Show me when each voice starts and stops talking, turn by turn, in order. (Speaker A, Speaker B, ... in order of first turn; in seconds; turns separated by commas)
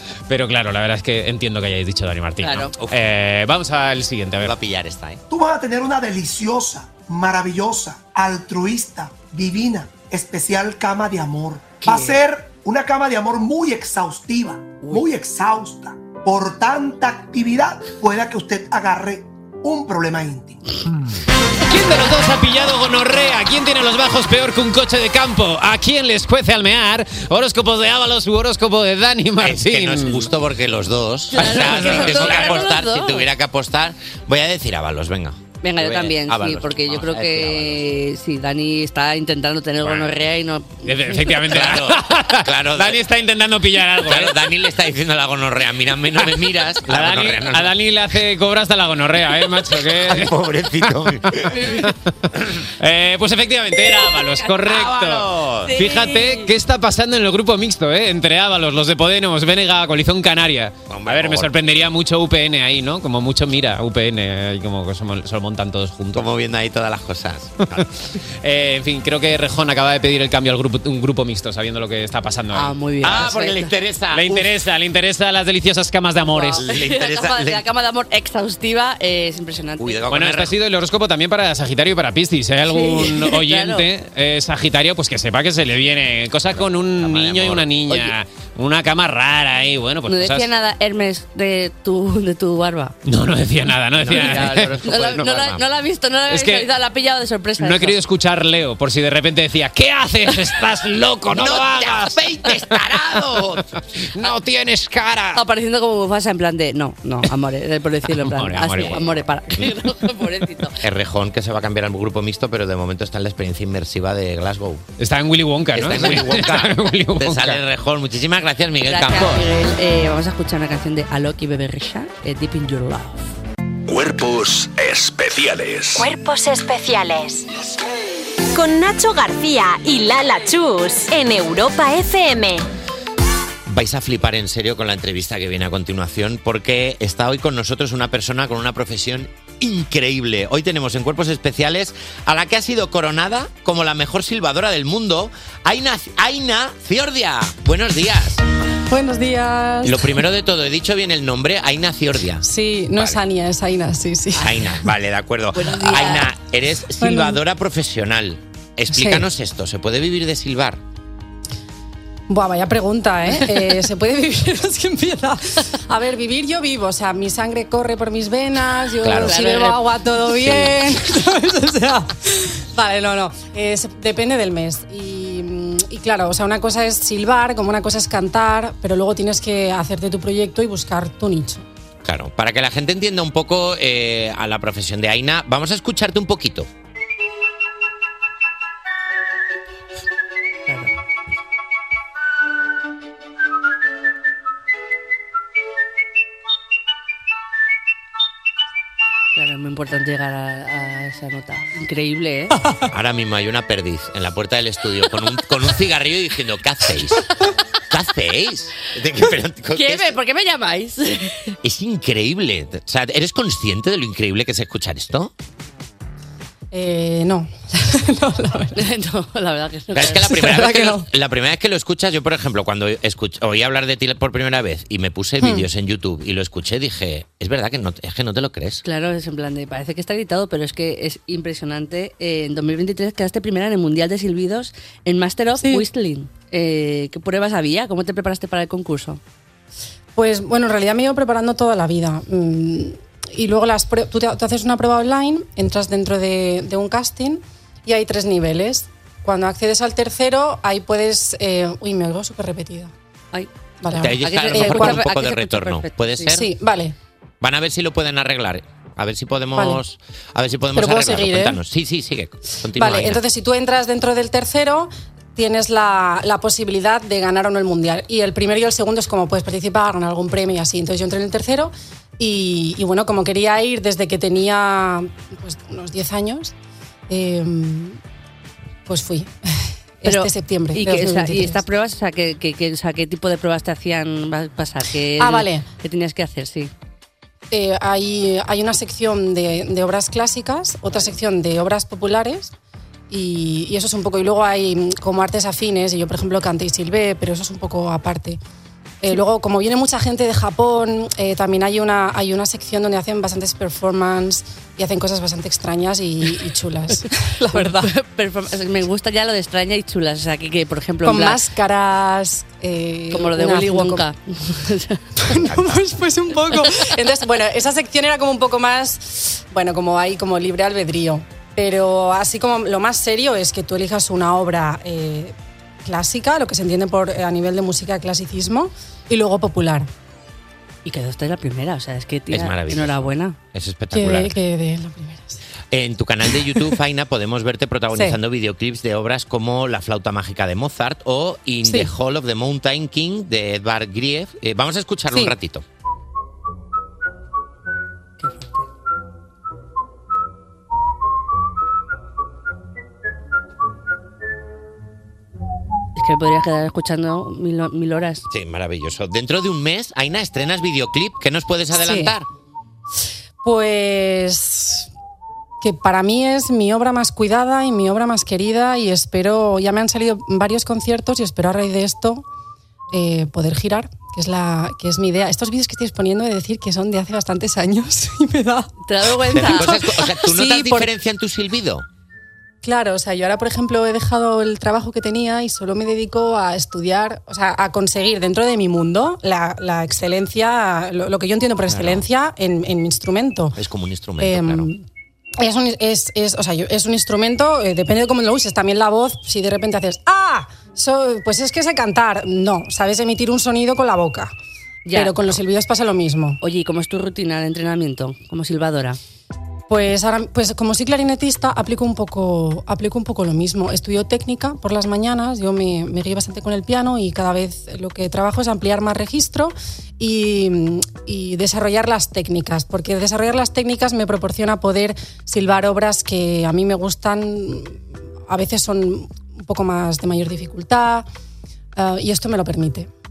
Speaker A: 0.3-4.5, Speaker B: 2.4-2.7, Speaker C: 2.6-3.0, Speaker C: 4.4-5.2, Speaker D: 5.3-20.7, Speaker B: 11.8-12.2, Speaker A: 21.7-30.3, Speaker C: 29.4-37.9, Speaker B: 31.3-33.3, Speaker A: 31.4-32.8, Speaker B: 35.6-41.4, Speaker C: 39.8-40.1, Speaker A: 40.8-44.4, Speaker C: 41.5-43.0, Speaker C: 44.0-47.8, Speaker A: 46.8-50.3, Speaker C: 50.0-51.7, Speaker B: 51.5-51.9, Speaker A: 52.8-66.2, Speaker B: 54.0-54.8, Speaker C: 54.5-55.8, Speaker B: 55.7-56.5, Speaker C: 60.9-61.6, Speaker C: 66.1-68.0, Speaker A: 68.4-73.3, Speaker B: 72.5-73.7, Speaker C: 73.0-74.5, Speaker A: 74.1-76.7, Speaker B: 76.2-80.0, Speaker C: 76.6-77.6, Speaker C: 79.8-80.5, Speaker A: 80.1-90.5, Speaker B: 82.7-83.9, Speaker C: 86.5-87.7, Speaker B: 87.9-88.1, Speaker B: 90.1-93.0, Speaker A: 93.0-94.8, Speaker C: 94.0-95.6, Speaker B: 94.1-98.0, Speaker A: 96.3-96.7, Speaker A: 97.6-102.8, Speaker C: 101.3-103.7, Speaker A: 104.1-105.4, Speaker B: 105.3-110.8, Speaker A: 108.2-109.1, Speaker C: 108.4-109.7, Speaker C: 110.8-114.8, Speaker A: 115.0-117.6, Speaker C: 115.7-119.5, Speaker B: 118.9-123.3, Speaker E: 123.9-126.1, Speaker F: 126.0-127.5, Speaker F: 128.5-132.6, Speaker C: 133.7-148.4, Speaker G: 148.9-150.2, Speaker C: 149.8-152.4, Speaker G: 152.4-154.8, Speaker C: 154.4-160.8, Speaker B: 155.6-156.3, Speaker G: 157.0-157.4, Speaker G: 158.9-159.3, Speaker G: 162.3-181.6, Speaker C: 169.0-169.4, Speaker B: 169.2-169.8, Speaker C: 170.4-170.8, Speaker C: 182.0-186.7, Speaker B: 190.7-190.9, Speaker B: 199.3-202.6, Speaker C: 202.9-207.3, Speaker C: 207.9-210.2, Speaker B: 209.7-211.6, Speaker C: 211.6-215.3, Speaker G: 216.7-218.8, Speaker B: 218.7-220.5, Speaker C: 219.9-228.8, Speaker G: 220.3-221.1, Speaker G: 225.4-225.7, Speaker B: 228.8-239.2, Speaker G: 235.6-235.9, Speaker G: 240.1-252.9, Speaker G: 253.8-255.1, Speaker C: 253.9-256.5, Speaker B: 254.2-256.4, Speaker G: 256.3-256.9, Speaker C: 257.4-263.2, Speaker G: 259.5-259.8, Speaker G: 260.7-261.6, Speaker G: 262.8-276.5, Speaker G: 277.1-278.0, Speaker G: 278.9-281.6, Speaker B: 280.1-286.7, Speaker G: 285.2-285.7, Speaker G: 287.5-292.5, Speaker G: 293.1-298.4, Speaker G: 299.0-307.9, Speaker B: 307.5-311.4, Speaker G: 311.0-314.1, Speaker B: 313.1-315.0, Speaker G: 315.2-329.9, Speaker B: 330.8-333.4, Speaker C: 332.3-334.3, Speaker G: 333.9-335.4, Speaker C: 335.7-345.6, Speaker G: 337.9-338.2, Speaker G: 341.6-341.9, Speaker G: 345.1-345.3, Speaker B: 348.2-348.7, Speaker B: 355.9-358.2, Speaker C: 358.3-362.3, Speaker G: 361.7-362.1, Speaker G: 363.4-364.9, Speaker G: 365.6-372.2, Speaker G: 372.9-378.7, Speaker B: 378.8-379.9, Speaker G: 379.3-380.9, Speaker C: 379.3-381.9, Speaker G: 382.6-393.6, Speaker C: 391.7-392.1, Speaker C: 393.6-394.7, Speaker G: 394.2-394.8, Speaker G: 395.4-404.3, Speaker B: 404.9-405.2, Speaker G: 404.9-406.4, Speaker B: 406.4-409.0, Speaker G: 409.7-431.1, Speaker G: 431.8-432.9